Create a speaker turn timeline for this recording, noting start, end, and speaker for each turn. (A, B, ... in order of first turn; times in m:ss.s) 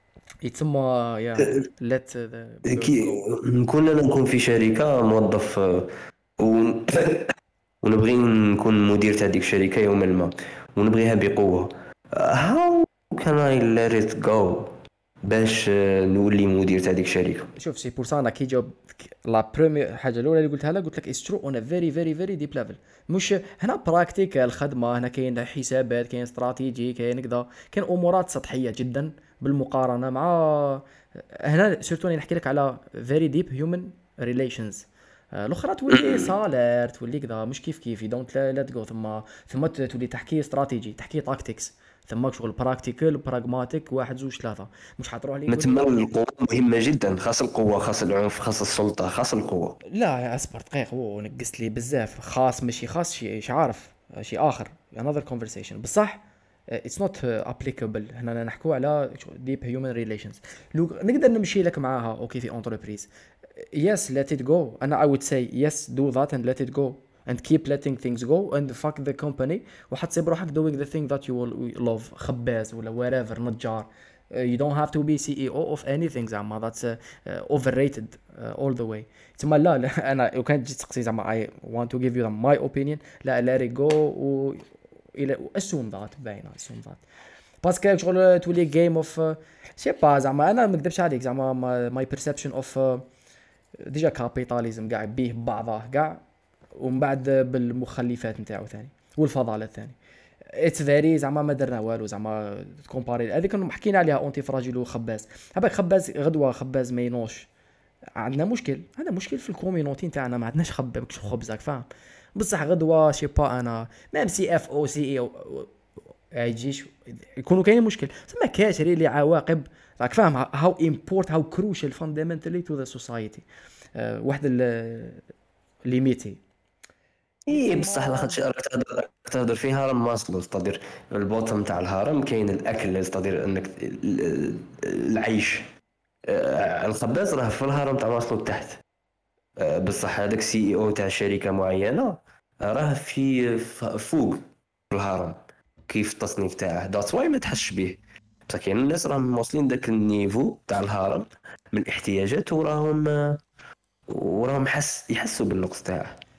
0:00.4-0:03.3 A
0:02.7-0:07.3 B
0:07.8-0:17.5 B
0:17.6-0:46.1 A
0:35.9-0:36.4 B
0:45.5-0:49.8 B
0:49.9-1:27.0 A
1:27.6-1:33.1 A
1:33.8-1:36.2 A
1:36.8-1:47.5 A
1:48.2-1:55.7 A
1:56.3-2:05.2 A
2:05.9-2:06.4 A
2:07.5-2:15.7 B
2:07.5-2:08.4 A
2:16.3-2:18.8 B
2:19.6-2:33.4 B
2:34.1-2:36.2 B